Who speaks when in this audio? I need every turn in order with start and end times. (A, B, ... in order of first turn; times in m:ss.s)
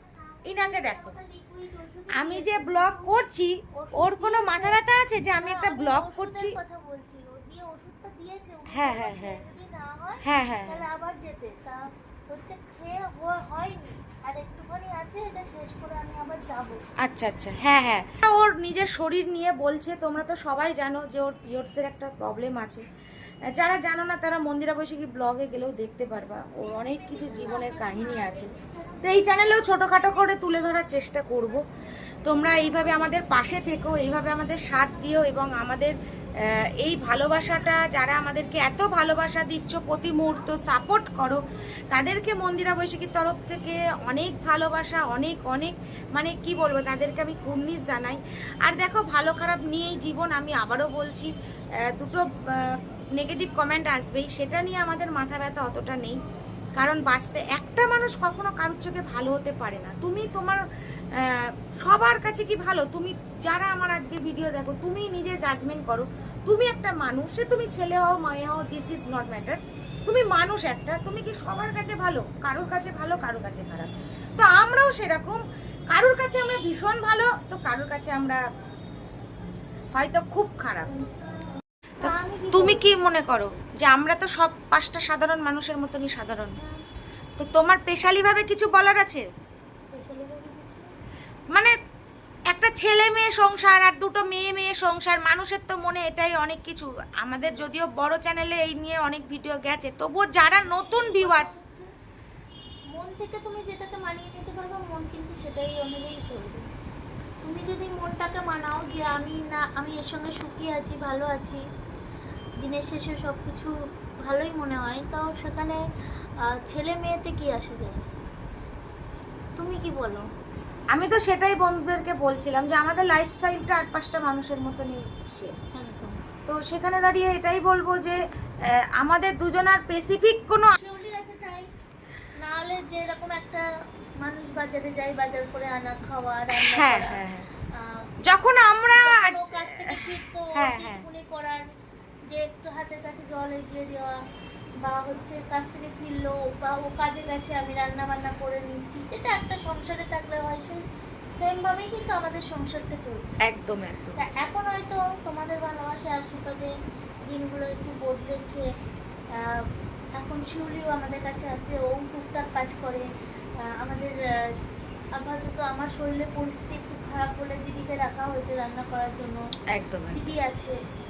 0:00.4-0:01.2 A
0:00.5-0:03.1 B
0:02.1-0:06.6 A
0:03.7-0:04.8 B
0:05.4-0:16.8 B
0:08.7-0:09.4 A
0:10.2-0:10.8 A
0:17.0-0:22.8 A
0:23.5-0:28.5 A
0:26.8-0:29.0 B
0:29.0-0:31.6 A
0:32.2-0:35.9 A
0:36.8-0:51.3 A
0:51.9-0:56.2 A
0:56.8-1:18.4 A
1:19.9-1:21.0 A
1:22.0-1:26.6 A
1:22.0-1:22.9 B
1:27.4-1:29.2 A
1:29.9-1:30.9 B
1:32.5-1:41.6 A
1:40.6-1:41.9 B
1:42.9-1:46.6 B
1:47.4-1:51.6 B
1:52.6-1:53.7 B
1:54.2-1:55.8 B
1:56.4-1:58.0 B
1:59.6-2:00.3 B
2:00.9-2:05.6 A
2:05.7-2:06.2 B
2:06.5-2:10.7 A
2:10.7-2:11.7 B
2:12.4-2:13.6 B
2:14.2-2:17.2 B
2:16.5-2:17.5 A
2:18.2-2:21.0 A
2:18.9-2:21.6 B
2:22.3-2:24.2 B
2:24.8-2:30.8 B
2:31.4-2:33.4 B
2:33.4-2:34.2 A
2:34.1-2:36.7 B
2:37.2-2:38.6 B
2:39.3-2:43.1 B
2:43.6-2:44.5 B
2:45.1-2:49.4 B
2:49.7-2:50.2 A
2:50.1-2:50.8 B